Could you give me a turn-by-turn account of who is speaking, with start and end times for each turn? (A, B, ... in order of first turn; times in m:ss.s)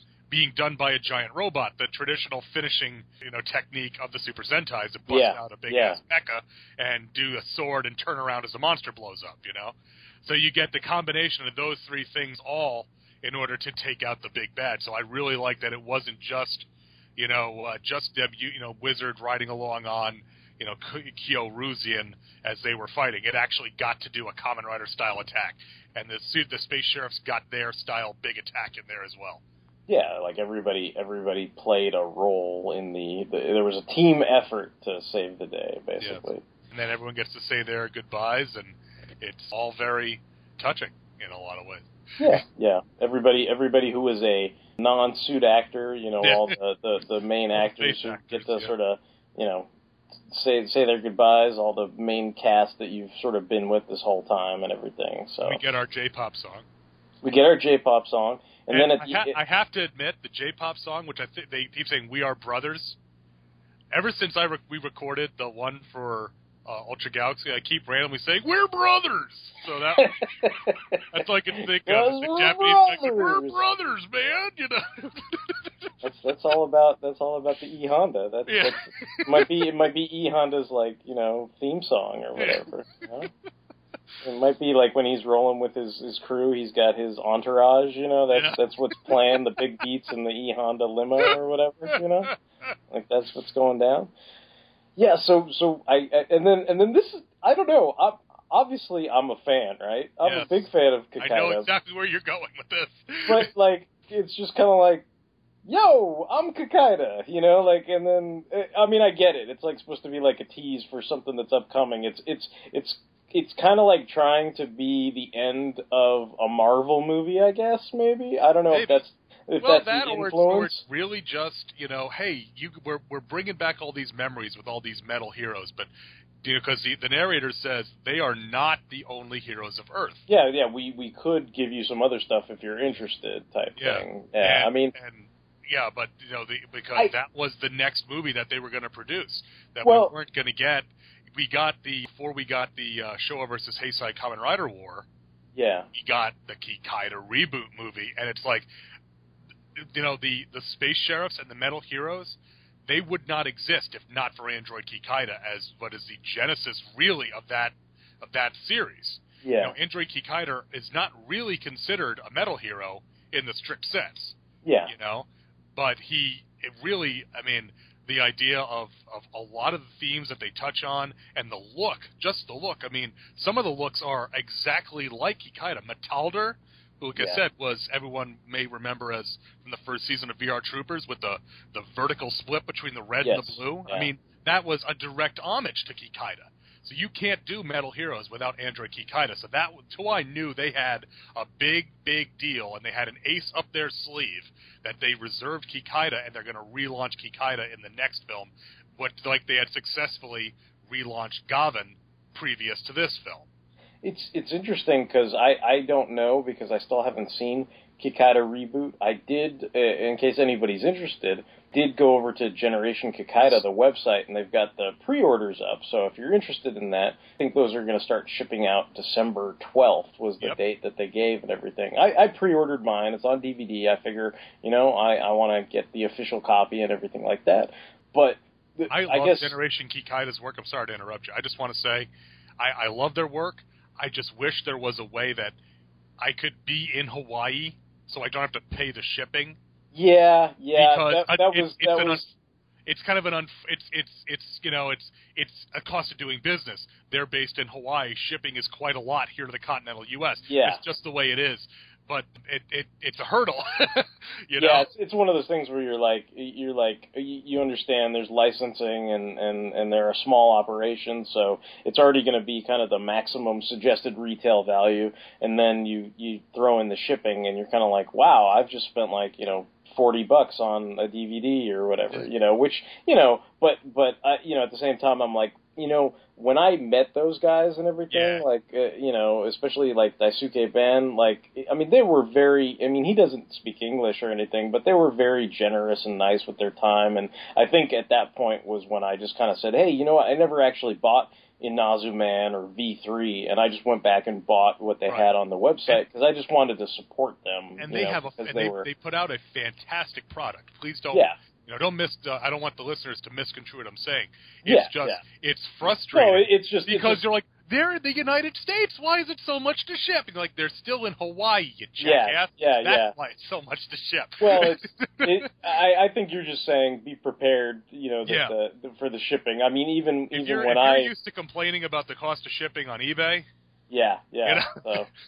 0:00.3-0:29.4 A
0:05.1-0:06.0 B
0:29.9-0:36.4 B
0:36.0-0:42.4 A
0:42.2-0:49.7 B
0:46.2-0:46.6 A
0:47.6-0:48.7 A
0:50.3-0:55.6 B
0:55.4-0:56.6 A
0:57.2-0:59.4 B
0:58.7-1:03.0 A
1:03.9-1:10.2 A
1:10.0-1:11.0 B
1:11.1-1:15.6 A
1:11.6-1:13.6 B
1:16.0-1:23.3 B
1:18.5-1:19.6 A
1:24.2-1:32.3 B
1:28.3-1:29.4 A
1:31.9-1:32.3 A
1:32.9-1:34.1 B
1:35.0-1:41.7 B
1:40.2-1:40.7 A
1:41.2-1:43.5 A
1:43.3-1:45.0 B
1:45.6-2:00.8 B
1:58.7-1:59.0 A
1:59.6-2:05.9 A
2:06.4-2:10.2 A
2:10.3-2:14.9 B
2:13.8-2:25.0 A
2:19.8-2:20.1 B
2:25.6-2:25.9 B
2:25.9-2:28.7 A
2:29.8-3:23.4 A
2:39.4-2:39.7 B
2:44.6-2:44.9 B
2:57.2-2:57.4 B
3:03.2-3:04.1 B
3:24.0-3:49.6 B
3:48.9-3:55.5 A
3:56.2-3:59.6 A
3:59.9-4:02.2 B
4:00.7-4:02.3 A
4:02.8-4:14.9 A
4:10.5-4:10.8 B
4:14.6-4:58.9 B
4:38.1-4:38.4 A
4:57.8-5:15.5 A
5:04.6-5:05.2 B
5:05.8-5:07.2 B
5:12.0-5:13.1 B
5:14.4-5:21.1 B
5:18.2-5:18.5 A
5:20.3-5:23.5 A
5:23.9-5:25.1 B
5:24.4-5:25.1 A